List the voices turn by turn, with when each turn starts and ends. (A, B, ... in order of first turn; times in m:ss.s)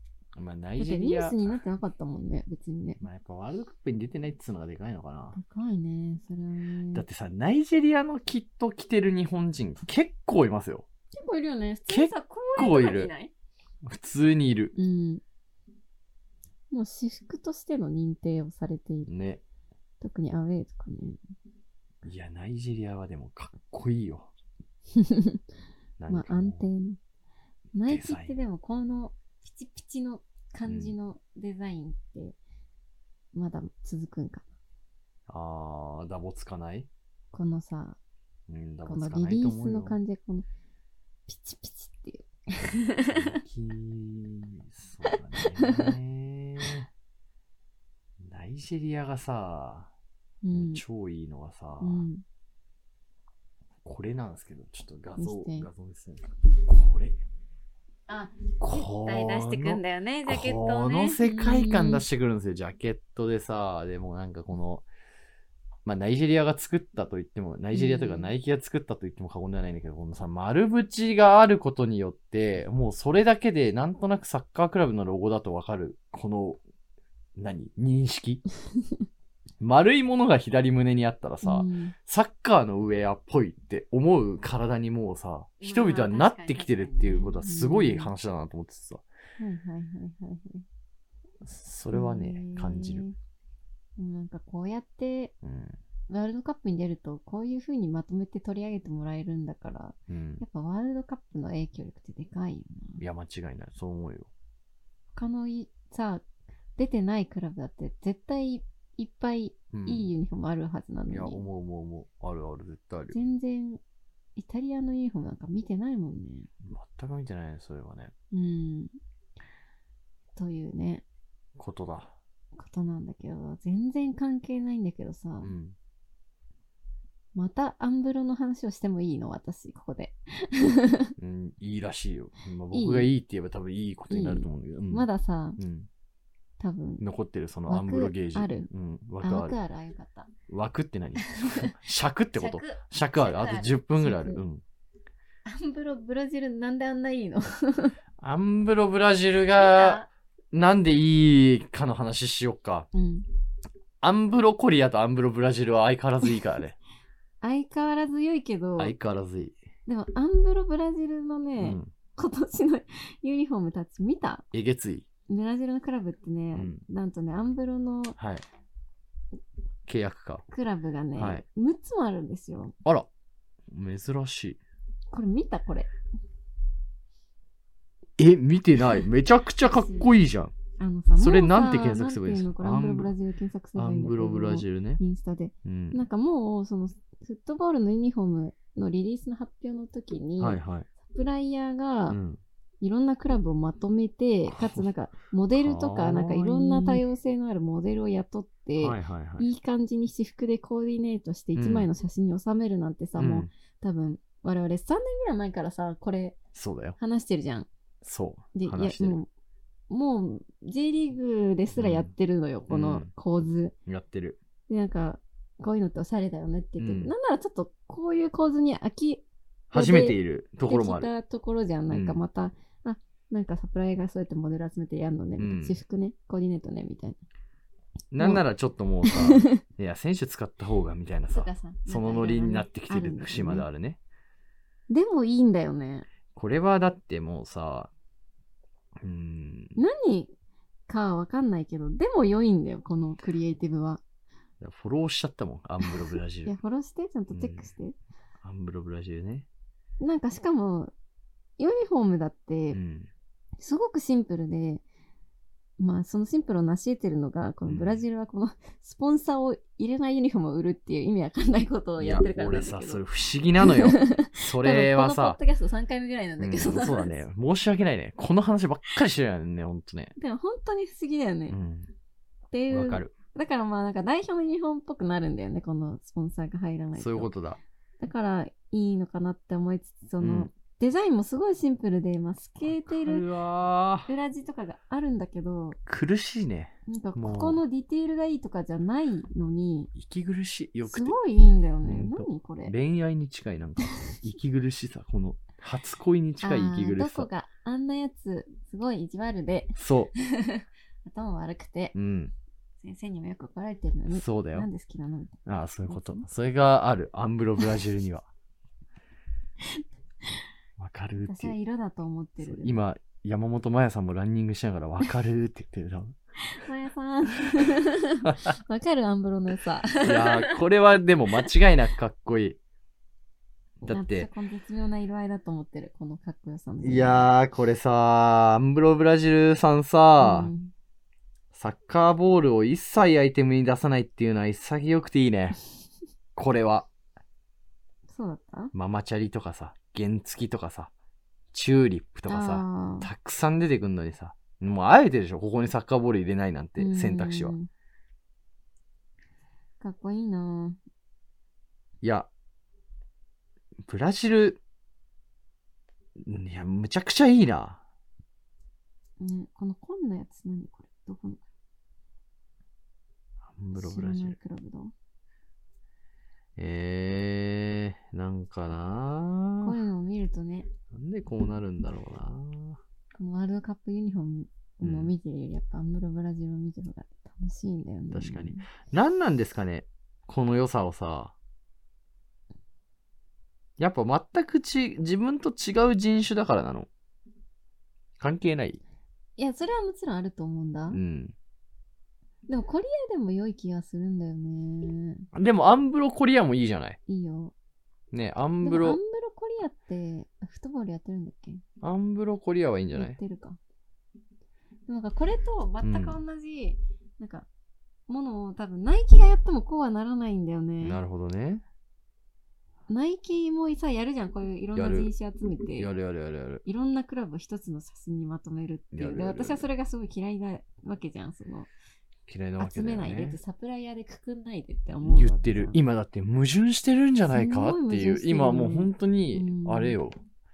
0:00.3-0:01.6 A
0:00.8-0:03.0 B
0:03.0-0:05.4 A
0:05.3-0:07.0 B
0:06.9-0:10.9 A
0:11.1-0:13.3 B
0:11.9-0:13.1 A
0:13.8-0:14.7 A
0:14.8-0:15.2 B
0:16.7-0:19.1 B
0:19.1-0:19.4 A
0:20.0-0:21.2 B
0:22.0-0:24.3 A
0:24.9-0:25.4 B
0:26.0-0:26.6 A
0:26.1-0:27.0 B
0:27.7-0:32.4 B
0:27.9-0:28.3 A
0:30.6-0:31.0 A
0:33.3-0:34.4 B
0:35.3-0:36.9 A
0:37.3-0:38.0 B
0:38.5-0:40.0 A
0:38.8-0:40.4 B
0:41.3-0:43.4 B
0:43.0-0:46.9 A
0:45.0-0:45.9 B
0:48.2-0:49.9 A
0:50.4-0:50.8 B
0:50.5-0:52.1 A
0:51.8-0:52.2 B
0:53.8-0:57.2 A
0:55.2-0:55.7 B
0:58.1-1:02.0 B
0:58.6-1:04.8 A
1:05.8-1:16.6 A
1:07.7-1:08.3 B
1:17.4-1:18.4 A
1:19.6-1:29.0 A
1:21.4-1:21.9 B
1:25.6-1:28.1 B
1:29.4-1:30.6 B
1:31.4-1:33.0 A
1:31.9-1:33.1 B
1:34.0-1:35.3 B
1:35.4-1:35.8 A
1:36.1-1:43.0 B
1:40.1-1:40.4 A
1:43.0-1:44.3 A
1:45.1-1:46.2 B
1:46.8-1:51.4 B
1:49.7-1:50.1 A
1:51.1-1:53.2 A
1:53.1-1:53.8 B
1:54.4-1:56.5 B
1:56.6-1:58.1 A
1:58.3-1:58.9 B
2:00.4-2:01.0 B
2:01.6-2:02.1 A
2:02.6-2:05.5 B
2:05.4-2:05.8 A
2:07.3-2:11.1 B
2:11.2-2:15.9 A
2:12.7-2:13.1 B
2:14.1-2:15.6 B
2:16.6-2:17.0 B
2:17.0-2:19.6 A
2:17.7-2:18.7 B
2:19.2-2:20.3 B
2:20.5-2:24.6 A
2:21.2-2:21.7 B
2:22.3-2:24.4 B
2:25.4-2:27.9 B
2:28.2-2:32.9 A
2:29.5-2:30.1 B
2:32.9-2:33.3 B
2:34.0-2:36.8 A
2:37.4-2:39.0 B
2:38.8-2:39.6 A
2:39.8-2:44.4 B
2:41.6-2:41.9 A
2:44.5-2:45.1 A
2:45.3-2:48.2 B
2:46.5-2:46.8 A
2:48.2-2:48.4 A
2:49.9-2:50.4 A
2:50.5-2:52.7 B
2:51.2-2:51.4 A
2:53.7-2:54.6 A
2:55.1-2:55.9 B
2:58.2-3:00.5 A
2:59.6-3:00.1 B
3:00.8-3:12.2 B
3:01.2-3:03.1 A
3:03.7-3:05.0 A
3:05.6-3:06.0 A
3:10.4-3:10.9 A
3:12.1-3:12.4 A
3:12.8-3:26.4 B
3:14.5-3:14.9 A
3:15.5-3:17.0 A
3:18.8-3:19.5 A
3:21.6-3:21.9 A
3:23.2-3:23.5 A
3:26.5-3:27.0 A
3:27.0-3:27.7 B
3:28.0-3:29.2 A
3:28.5-3:29.3 B
3:29.9-3:33.7 B
3:31.8-3:32.1 A
3:32.7-3:33.1 A
3:33.8-3:34.4 A
3:34.7-3:47.2 B
3:36.8-3:37.1 A
3:39.7-3:41.1 A
3:41.9-3:42.2 A
3:45.4-3:45.8 A
3:48.1-3:54.0 A
3:49.0-3:49.6 B
3:51.3-3:53.7 B
3:54.9-3:56.1 B
3:56.3-3:57.9 A
3:59.0-3:59.8 A
3:59.8-4:00.3 B
4:00.9-4:04.0 B
4:04.6-4:06.5 A
4:05.8-4:08.0 B
4:07.3-4:07.7 A
4:08.4-4:09.5 A
4:10.0-4:10.9 B
4:11.6-4:12.8 B
4:12.7-4:13.1 A
4:13.6-4:14.8 B
4:15.8-4:23.0 B
4:17.6-4:18.0 A
4:22.0-4:25.4 A
4:23.6-4:27.2 B
4:26.4-4:30.1 A
4:30.2-4:31.6 B
4:31.5-4:31.9 A
4:32.5-4:37.3 B
4:32.7-4:33.1 A
4:36.9-4:37.6 A
4:38.0-4:43.3 B
4:40.2-4:40.5 A
4:42.6-4:44.1 A
4:44.1-4:45.8 B
4:45.9-4:47.6 A
4:46.9-4:49.9 B
4:49.9-4:51.2 A
4:50.8-4:52.7 B
4:51.8-4:57.3 A
4:56.4-5:01.9 B
4:59.8-5:00.1 A
5:01.9-5:02.3 A
5:02.8-5:06.3 B
5:04.1-5:04.7 A
5:05.4-5:08.3 A
5:10.8-5:11.5 A
5:11.2-5:12.8 B
5:12.4-5:16.1 A
5:16.4-5:20.5 B
5:18.2-5:18.5 A
5:20.0-5:22.6 A
5:23.8-5:24.3 A
5:23.9-5:27.3 B
5:26.8-5:30.5 A
5:30.2-5:30.7 B
5:31.5-5:35.6 A
5:36.4-5:36.9 A
5:38.1-5:38.7 B
5:38.7-5:40.9 A
5:41.5-5:47.5 A
5:42.3-5:43.1 B
5:46.8-5:47.7 B
5:49.8-5:50.8 B
5:52.0-5:52.3 A
5:53.8-5:54.6 A
5:56.2-5:57.8 A
5:59.2-6:01.4 B
6:03.5-6:04.4 A
6:03.8-6:04.9 B
6:06.6-6:09.8 A
6:09.6-6:10.7 B
6:10.9-6:12.8 A
6:13.1-6:18.7 B
6:14.8-6:15.1 A
6:18.1-6:21.3 A
6:23.8-6:26.9 A
6:28.2-6:28.8 A
6:29.4-6:31.0 B
6:30.9-6:31.3 A
6:32.5-6:35.3 B
6:35.3-6:37.0 A
6:37.1-6:37.5 B
6:38.1-6:39.0 A
6:38.6-6:41.6 B
6:41.8-6:43.2 A
6:43.0-6:43.6 B
6:44.9-6:47.5 B
6:45.8-6:46.2 A
6:48.1-6:51.0 B
6:50.8-6:51.6 A
6:52.9-6:55.9 B
6:54.8-6:55.1 A
6:55.8-6:56.6 A
6:56.6-7:01.7 B
6:58.9-6:59.7 A
7:02.3-7:03.4 A
7:02.6-7:05.8 B
7:05.0-7:10.2 A
7:07.3-7:10.0 B